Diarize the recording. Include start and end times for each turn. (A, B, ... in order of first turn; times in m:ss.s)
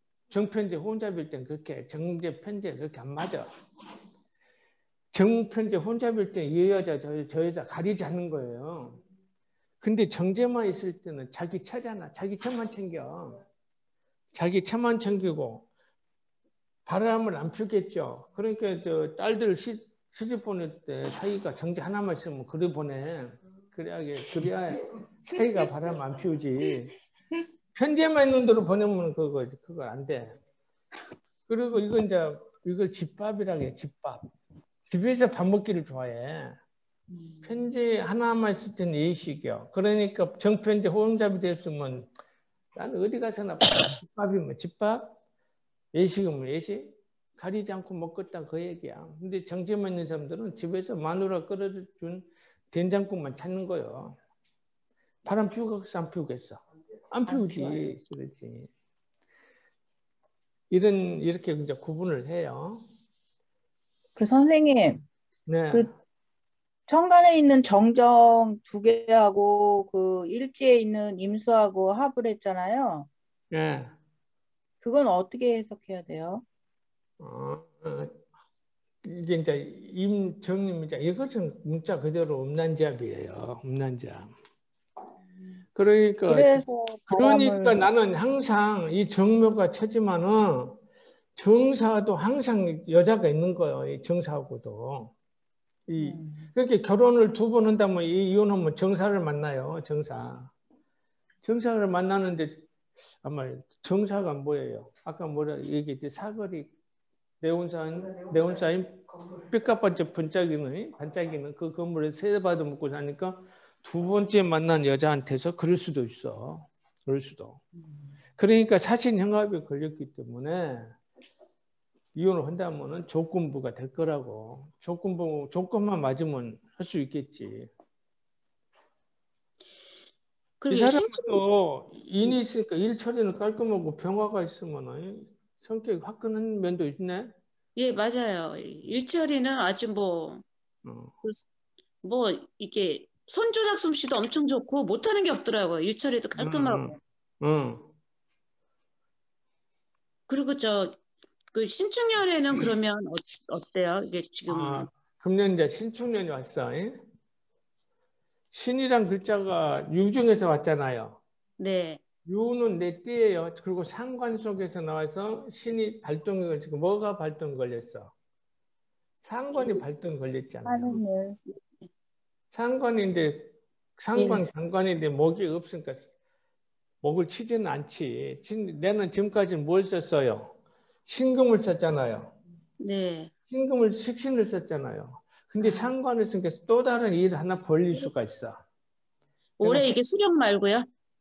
0:00.3-0:03.5 A
0:05.1-0:09.0 A
0:09.8-0:13.4 A
0:14.3-0:15.7 A
0:16.9-0:26.9 A
0:27.8-0:30.4 A
0:31.5-0:34.2 A
0:34.9-0:36.6 A
0:37.4-0:42.1 A
0:42.8-0:45.2 A
0:45.9-0:54.2 A
0:55.2-0:58.7 A
0:57.3-0:57.8 B
1:00.7-1:02.9 A
1:04.2-1:05.0 B
1:05.5-1:05.9 A
1:06.9-1:13.1 B
1:13.5-1:14.0 A
1:14.8-1:16.4 B
1:17.2-1:18.2 A
1:19.0-1:24.3 A
1:25.8-1:30.8 A
1:26.3-1:27.9 B
1:31.4-1:35.1 A
1:35.9-1:40.5 A
1:36.0-1:36.5 B
1:41.4-1:42.7 A
1:43.2-1:46.7 A
1:47.4-1:57.6 A
1:58.4-2:01.0 A
2:02.2-2:07.7 A
2:10.6-2:11.4 C
2:10.7-2:17.3 A
2:17.8-2:20.4 C
2:20.8-2:21.1 A
2:22.0-2:27.0 C
2:26.4-2:27.9 A
2:30.3-2:31.0 C
2:31.5-2:34.9 C
2:34.5-2:37.0 A
2:38.5-2:41.2 A
2:41.6-2:42.0 C
2:42.3-2:48.1 A
2:49.2-2:51.0 A
2:50.6-2:51.4 B
2:52.5-2:56.1 A
2:54.2-2:54.5 B
2:57.0-3:00.5 A
3:01.0-3:02.4 A
3:02.8-3:03.3 C
3:03.5-3:08.6 A
3:05.6-3:05.9 C
3:09.6-3:10.9 C
3:09.6-3:10.0 A